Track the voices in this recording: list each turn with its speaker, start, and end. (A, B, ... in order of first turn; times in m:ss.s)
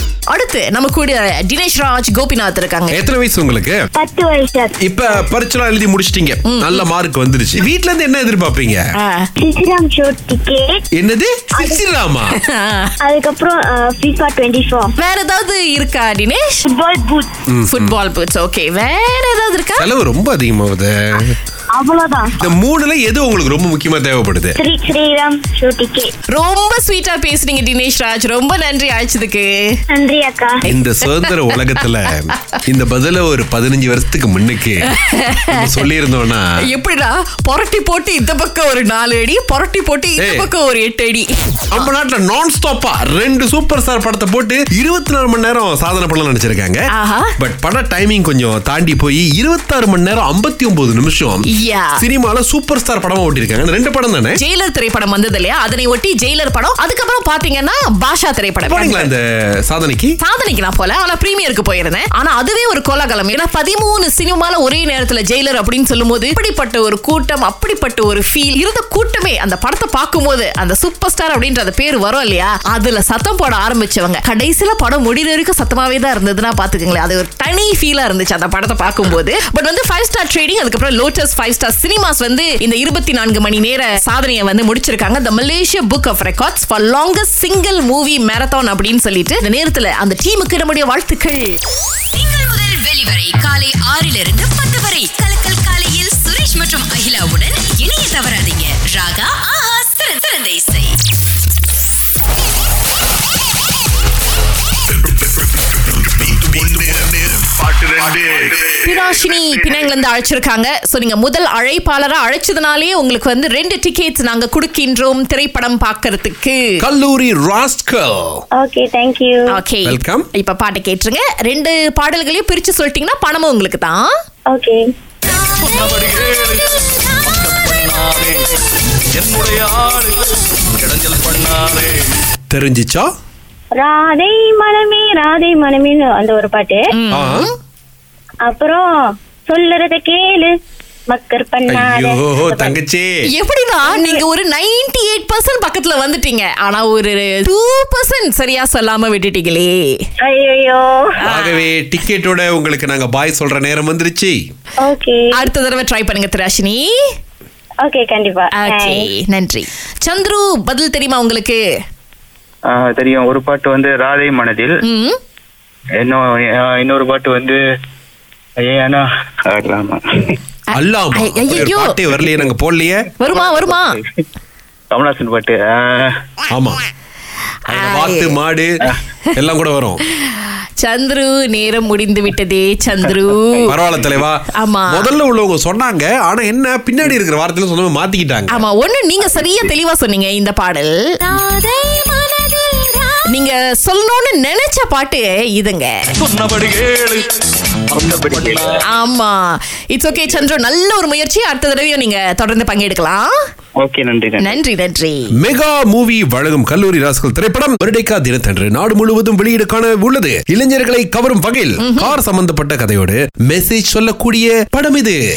0:00.3-0:03.0 A
0:02.9-0:03.8 B
0:04.0-0:04.9 C
0:04.8-0:08.8 B
0:06.4-0:06.8 A
0:09.0-0:09.3 A
0:09.4-0:10.8 C
0:11.0-0:12.3 B
0:12.3-0:12.9 A
0:13.0-0:14.9 C
0:15.0-0:16.6 A
0:16.7-0:17.3 C
0:17.5-0:18.0 B
0:17.7-0:19.9 A
0:19.8-0:21.4 B
0:21.7-0:22.4 C
0:22.4-0:24.6 B
0:24.6-0:26.1 C
0:26.3-0:29.8 A
0:29.9-0:30.6 C
0:30.7-0:34.9 B
0:30.7-0:31.9 A
0:34.8-0:35.9 A
0:35.5-0:36.5 B
0:36.6-0:41.9 A
0:40.2-0:40.5 B
0:41.7-0:46.8 B
0:46.9-0:47.3 A
0:47.4-0:51.4 B
0:51.5-0:52.0 A
0:52.0-0:54.4 B
0:54.4-0:59.1 A
0:58.6-1:00.1 B
1:00.2-1:31.5 A
1:32.1-1:41.0 D
1:46.1-1:48.4 B
1:48.7-1:56.8 A
1:56.8-1:58.4 B
1:58.6-1:59.5 C
1:59.5-2:04.1 A
1:59.8-2:00.3 B
2:04.5-2:04.8 C
2:05.5-2:08.5 E
2:09.1-2:12.0 E
2:12.5-2:13.1 B
2:13.7-2:16.8 C
2:16.9-2:17.5 A
2:17.1-2:17.5 B
2:18.4-2:18.9 C
2:19.5-2:20.5 C
2:21.1-2:22.7 C
2:21.7-2:23.2 B
2:23.3-2:30.0 A
2:23.8-2:24.2 C
2:30.2-2:31.1 C
2:31.2-2:31.7 A
2:31.2-2:34.4 B
2:34.8-2:35.3 C
2:35.4-2:36.8 A
2:37.8-2:39.0 C
2:38.6-2:41.6 A
2:42.7-2:44.8 F
2:44.8-2:45.2 A
2:46.0-2:47.6 F
2:48.6-2:50.0 F
2:50.7-2:53.0 B
2:51.1-2:52.0 A
2:53.2-2:54.0 A
2:53.3-2:54.2 F
2:54.9-2:56.1 F
2:56.5-2:56.8 B
2:57.7-2:58.7 B
2:57.7-2:58.4 A
2:59.3-3:00.0 B
3:00.2-3:03.8 A
3:03.6-3:08.6 B
3:04.5-3:05.1 A
3:08.5-3:10.9 A
3:11.2-3:13.2 D
3:13.3-3:16.1 A
3:16.2-3:17.3 E
3:17.9-3:18.8 E
3:17.9-3:18.8 F
3:18.8-3:23.3 A
3:23.8-3:24.6 F
3:24.4-3:25.3 A
3:25.4-3:35.2 B
3:31.8-3:32.2 A